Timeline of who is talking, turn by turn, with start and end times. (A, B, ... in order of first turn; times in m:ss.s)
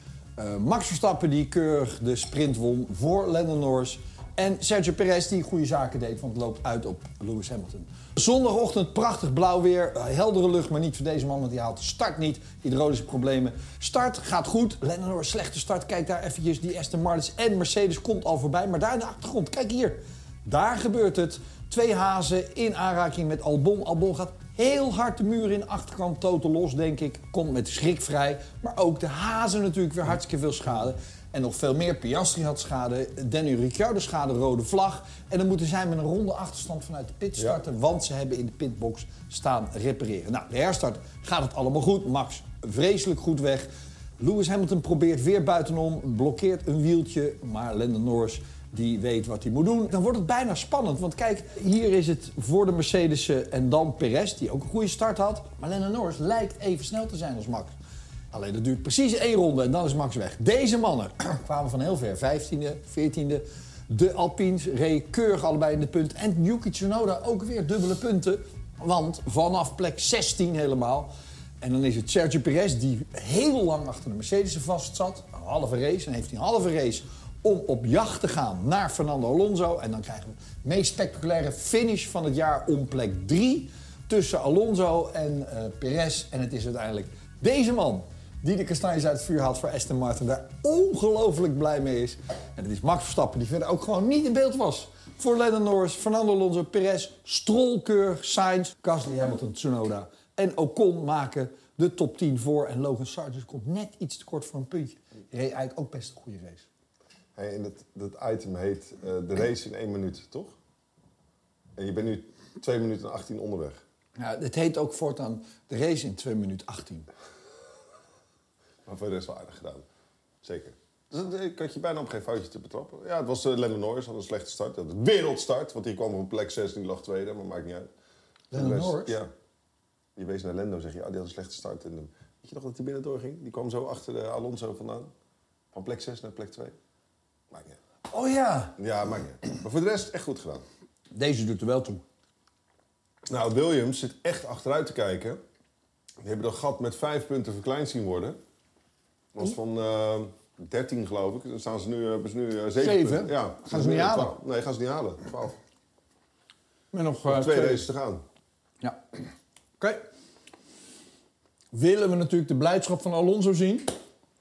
0:00.4-0:43.7 A
0:44.2-0:57.7 A
0:58.3-1:46.6 A
1:47.3-1:50.6 B
1:51.8-1:53.8 B
1:54.2-1:57.1 A
1:58.8-1:59.8 B
2:00.4-2:07.9 B
2:08.5-2:09.2 A
2:08.5-2:09.3 B
2:10.2-2:15.1 B
2:15.7-2:16.8 B
2:17.5-2:17.8 B
2:18.1-2:18.8 A
2:18.8-2:20.6 B
2:21.1-2:22.0 A
2:23.3-2:25.4 B
2:26.2-2:28.4 B
2:29.3-2:35.6 B
2:32.8-2:34.4 A
2:36.9-2:37.8 A
2:37.2-2:38.2 B
2:41.7-2:43.9 A